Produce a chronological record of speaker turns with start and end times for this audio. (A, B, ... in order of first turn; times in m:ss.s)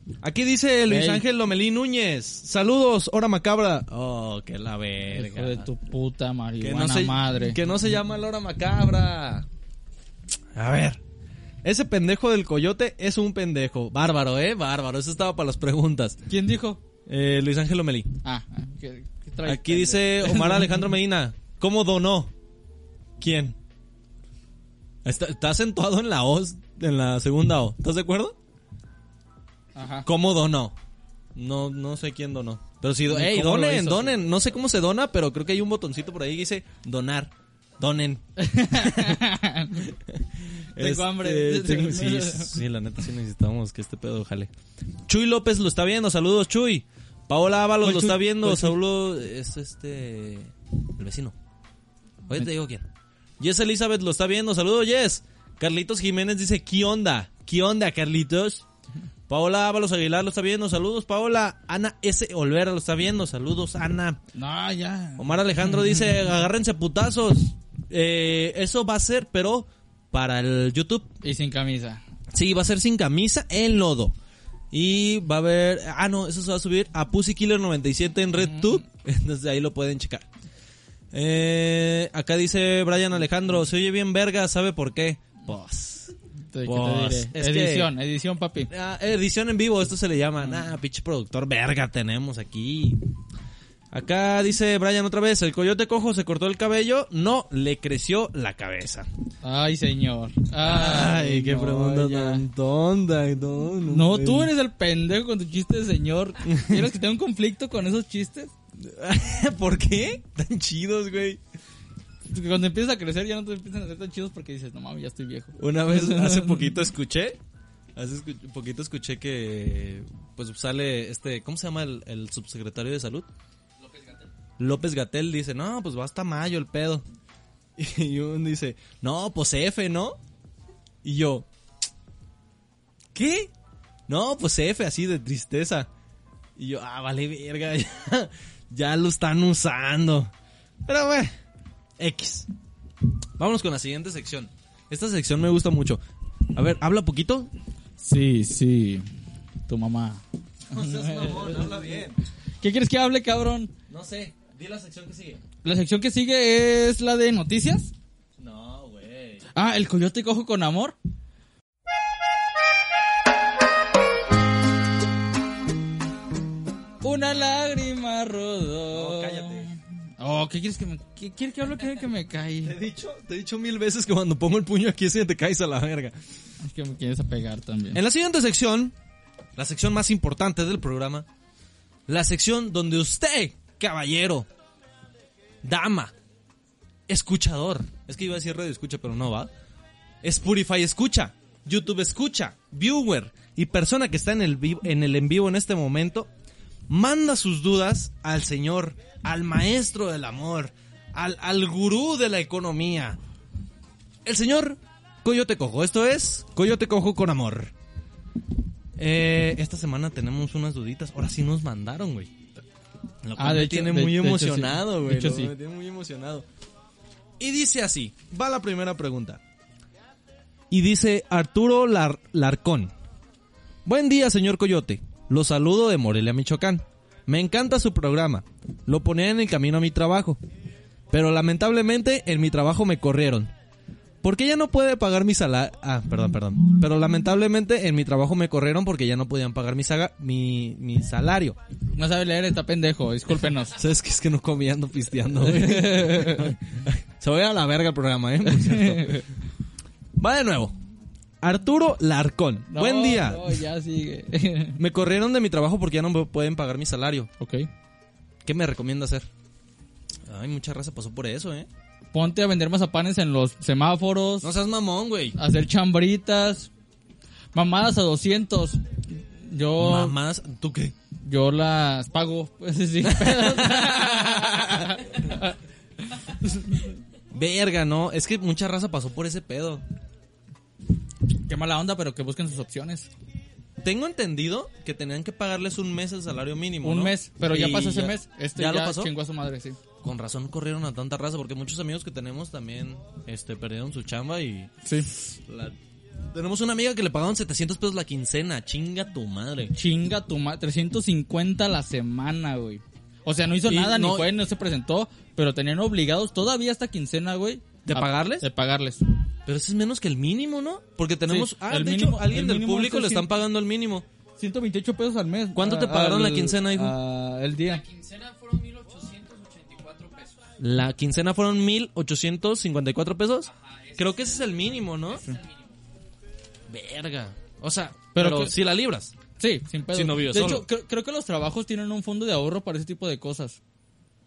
0:00.2-0:05.7 A
0:00.9-0:01.2 B
0:05.1-0:07.6 B
0:06.6-0:09.5 A
0:10.6-0:11.0 A
0:11.6-0:16.2 A
0:16.3-0:16.8 B
0:17.1-0:18.1 A
0:18.2-0:20.8 B
0:19.5-0:22.3 A
0:23.2-0:23.6 A
0:25.0-0:28.4 A
0:29.8-0:30.1 B
0:30.1-0:30.8 A
0:31.4-0:39.2 A
0:33.1-0:34.2 B
0:38.4-0:39.8 B
0:39.9-0:44.5 A
0:40.8-0:42.6 B
0:45.1-0:51.3 A
0:47.8-0:48.8 B
0:52.3-0:52.9 A
0:53.4-0:58.6 A
0:59.3-1:04.2 A
1:04.4-1:05.2 B
1:05.2-1:11.1 A
1:11.2-1:12.0 B
1:12.3-1:14.1 A
1:14.7-1:20.3 A
1:21.1-1:26.1 A
1:26.5-1:28.7 B
1:26.7-1:27.9 A
1:28.7-1:33.0 A
1:33.9-1:39.1 A
1:39.4-1:42.4 B
1:40.6-1:44.5 A
1:43.9-1:48.5 B
1:46.5-1:46.8 A
1:48.8-1:51.4 A
1:52.3-1:56.7 B
1:55.6-1:57.4 A
1:58.0-2:03.3 A
2:04.6-2:07.0 A
2:07.8-2:10.2 A
2:11.0-2:11.5 A
2:13.1-2:13.5 A
2:14.1-2:15.9 A
2:16.6-2:20.3 A
2:20.9-2:21.3 A
2:22.0-2:22.5 A
2:23.4-2:26.0 A
2:26.6-2:27.5 A
2:28.0-2:29.1 B
2:29.7-2:31.8 B
2:30.7-2:32.2 A
2:32.6-2:33.7 B
2:33.9-2:35.4 A
2:35.6-2:37.9 B
2:38.4-2:39.4 A
2:39.6-2:41.0 B
2:47.0-2:52.8 B
2:48.9-2:49.7 A
2:52.6-2:56.2 A
2:56.6-2:58.0 B
2:57.9-2:58.9 A
2:59.6-3:01.3 A
3:02.1-3:04.5 A
3:05.6-3:06.1 A
3:07.1-3:09.5 A
3:10.2-3:16.3 A
3:16.9-3:23.2 A
3:24.2-3:27.7 A
3:29.0-3:32.4 A
3:33.2-3:36.4 A
3:33.4-3:35.5 B
3:37.4-3:39.4 A
3:40.7-3:42.9 A
3:43.9-3:50.4 A
3:51.1-3:53.5 A
3:54.2-4:01.6 A
4:02.0-4:03.8 B
4:03.8-4:09.2 A
4:05.4-4:06.6 B
4:08.5-4:09.2 B
4:10.2-4:10.7 A
4:11.4-4:13.6 A
4:12.7-4:14.8 B
4:14.8-4:17.3 A
4:17.4-4:17.7 B
4:18.4-4:19.3 A
4:20.3-4:21.7 A
4:22.1-4:24.5 B
4:24.4-4:25.4 A
4:25.4-4:26.7 B
4:27.5-4:30.2 B
4:29.8-4:30.9 A
4:31.2-4:35.5 B
4:33.0-4:35.2 A
4:36.1-4:36.9 B
4:37.3-4:39.8 A
4:41.5-4:43.1 B
4:43.8-4:49.1 A
4:46.8-4:49.8 B
4:50.0-4:55.8 A
4:54.8-4:55.1 B
4:56.3-4:59.7 A
4:59.7-5:09.0 B
5:03.7-5:04.3 A
5:07.9-5:08.5 A
5:09.5-5:14.0 A
5:11.3-5:13.3 B
5:14.4-5:17.8 B
5:15.5-5:17.0 A
5:18.0-5:20.5 C
5:20.6-5:25.2 A
5:23.6-5:24.0 C
5:26.7-5:29.2 A
5:28.2-5:28.5 B
5:29.4-5:33.6 B
5:29.9-5:30.7 A